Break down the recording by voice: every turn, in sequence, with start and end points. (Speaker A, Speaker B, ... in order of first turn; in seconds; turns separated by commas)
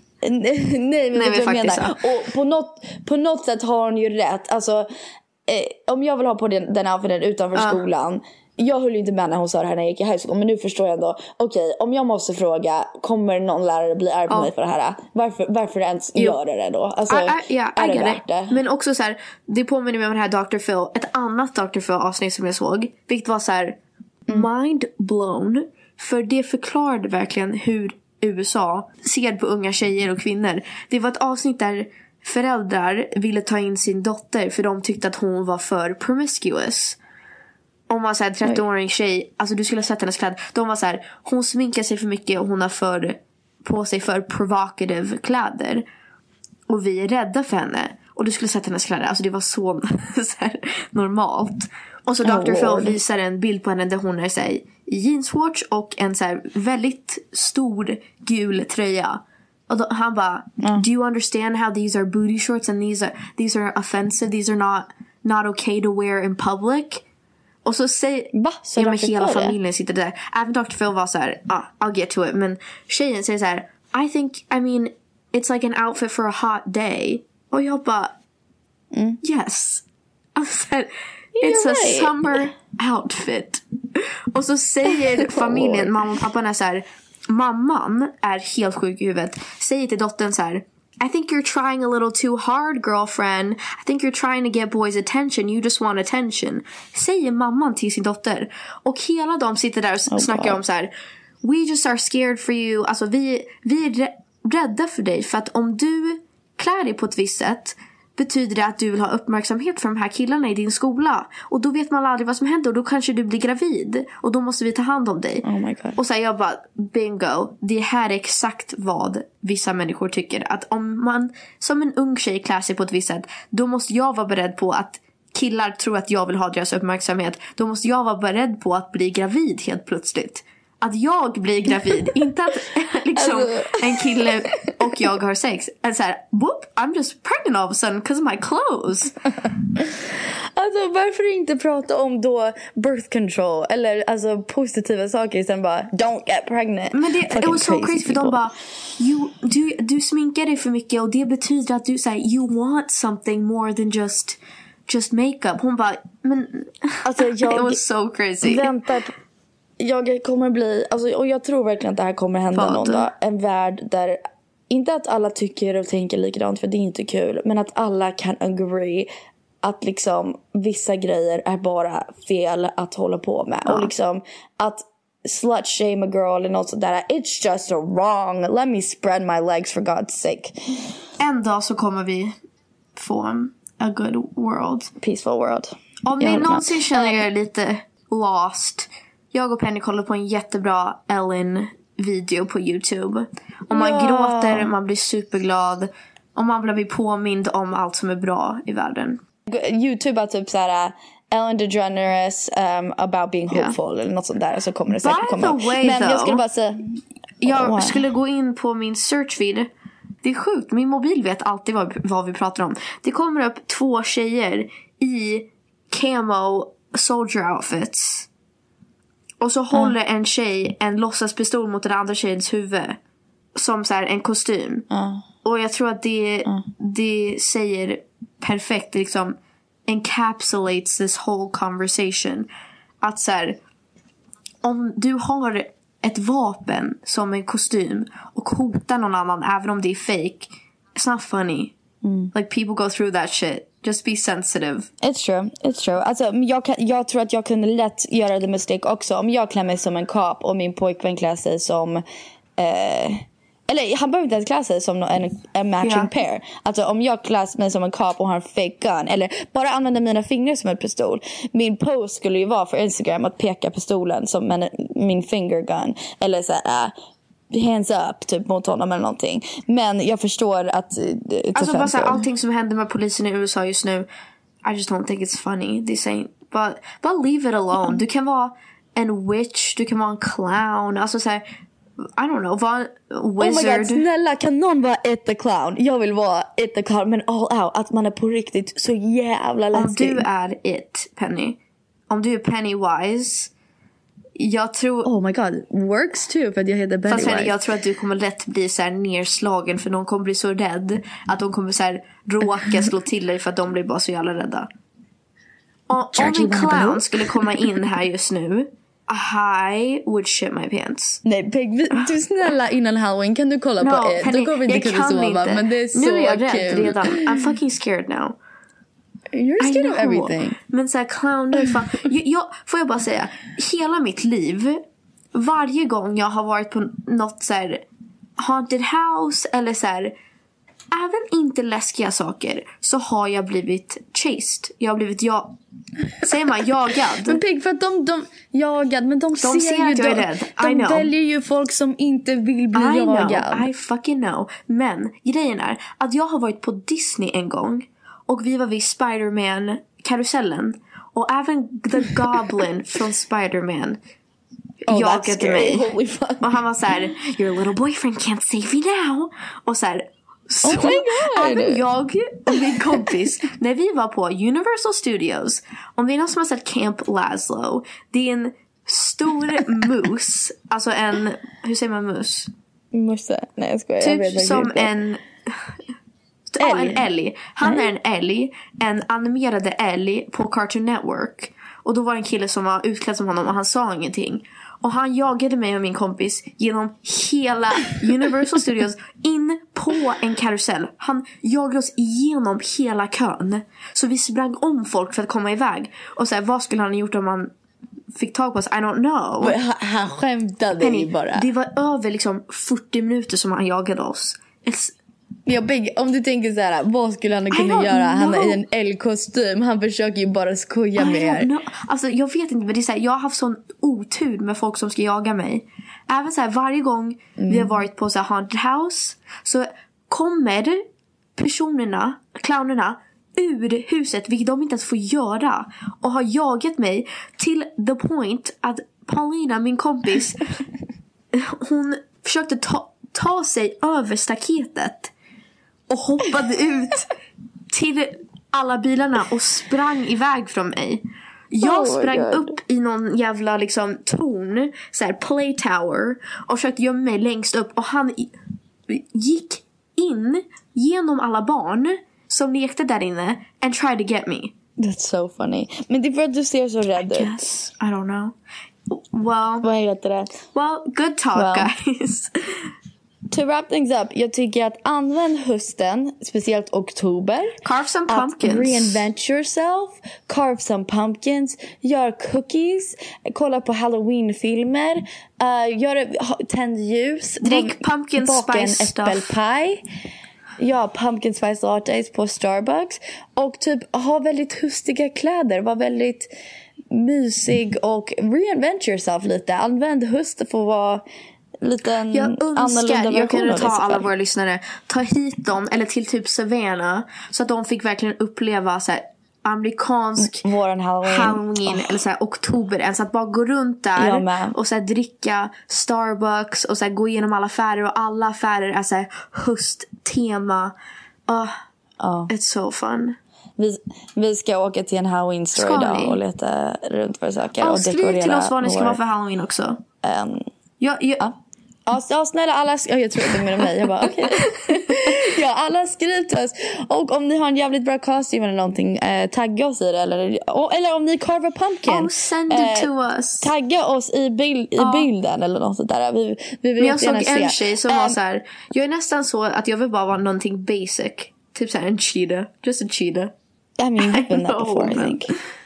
Speaker A: 0.2-4.9, Speaker B: 1.1-2.0, Speaker A: 5.5-18.6, Speaker B: 7.5-7.8, Speaker B: 17.1-23.8, Speaker B: 24.3-37.0, Speaker B: 37.9-45.9, Speaker B: 46.7-67.0, Speaker A: 52.2-53.0, Speaker B: 67.7-78.2, Speaker A: 68.3-69.5, Speaker A: 78.9-79.2, Speaker B: 79.2-100.9, Speaker A: 81.4-82.2, Speaker A: 85.2-85.9, Speaker A: 100.1-100.6, Speaker B: 101.4-115.5, Speaker A: 115.4-116.0, Speaker B: 116.0-139.2, Speaker A: 133.2-134.7, Speaker A: 140.6-148.4, Speaker B: 146.9-158.7, Speaker A: 157.0-157.8, Speaker A: 158.4-159.1, Speaker A: 159.8-169.1, Speaker B: 162.5-163.1, Speaker A: 169.6-180.8, Speaker B: 173.7-173.9, Speaker B: 181.2-182.4, Speaker B: 183.0-184.9, Speaker A: 185.0-187.2, Speaker B: 186.1-199.2, Speaker A: 193.7-194.7, Speaker A: 199.5-208.1, Speaker B: 203.5-203.8, Speaker B: 204.9-206.4, Speaker B: 207.4-209.7, Speaker B: 210.2-218.3, Speaker B: 219.4-223.0, Speaker B: 223.6-224.9, Speaker A: 224.9-225.2, Speaker B: 225.4-232.5, Speaker B: 233.0-233.6, Speaker B: 234.6-241.7, Speaker A: 242.0-242.3, Speaker B: 242.3-244.9, Speaker A: 245.0-252.0, Speaker A: 252.6-266.9, Speaker B: 255.8-256.1, Speaker A: 267.5-272.2, Speaker B: 271.6-274.1, Speaker B: 274.6-281.4, Speaker B: 282.2-284.0, Speaker A: 283.4-290.2, Speaker B: 289.7-291.6, Speaker B: 292.1-293.5, Speaker B: 294.4-295.1, Speaker A: 295.0-297.6, Speaker B: 297.1-304.7, Speaker B: 305.9-311.2, Speaker A: 306.1-307.5, Speaker A: 311.2-317.4, Speaker B: 313.8-318.4, Speaker A: 319.3-320.6, Speaker B: 319.6-327.9, Speaker B: 328.4-330.1, Speaker B: 330.9-335.6, Speaker B: 336.2-337.4, Speaker A: 337.2-343.7, Speaker B: 339.4-341.1, Speaker B: 342.7-354.0, Speaker B: 354.9-355.9, Speaker A: 354.9-356.6, Speaker B: 356.4-372.5, Speaker A: 360.6-361.8, Speaker A: 362.5-362.8, Speaker A: 372.9-374.9, Speaker B: 374.0-375.8, Speaker B: 376.5-397.5, Speaker A: 376.6-377.1, Speaker A: 377.6-377.9, Speaker B: 398.1-399.6, Speaker A: 399.4-401.5, Speaker B: 400.8-404.9, Speaker A: 405.5-411.5, Speaker B: 407.5-408.6, Speaker B: 411.0-430.5, Speaker A: 417.4-417.8, Speaker B: 431.3-435.1, Speaker B: 435.9-437.1, Speaker B: 437.7-448.3, Speaker A: 441.6-442.6, Speaker B: 448.9-454.5, Speaker A: 454.8-457.5, Speaker B: 457.0-458.4, Speaker B: 458.9-459.7, Speaker A: 459.6-460.4, Speaker B: 460.5-462.7, Speaker A: 461.4-461.7, Speaker A: 463.3-467.6, Speaker B: 467.6-469.0, Speaker A: 468.1-479.8, Speaker B: 477.4-479.4, Speaker A: 480.6-486.3, Speaker A: 486.9-491.0, Speaker A: 491.6-494.1, Speaker B: 492.1-500.4, Speaker A: 500.2-502.0, Speaker B: 501.0-510.8, Speaker A: 504.0-504.6, Speaker B: 511.3-511.6, Speaker A: 512.0-512.3, Speaker B: 512.3-513.2, Speaker A: 513.6-519.0, Speaker B: 515.5-516.2, Speaker B: 517.6-519.8, Speaker A: 520.0-520.5, Speaker B: 520.8-521.3, Speaker A: 521.9-532.9, Speaker B: 523.3-525.3, Speaker B: 531.9-533.5, Speaker A: 533.4-538.2, Speaker B: 534.8-535.1, Speaker B: 536.8-543.3, Speaker A: 543.8-545.3, Speaker B: 544.0-545.4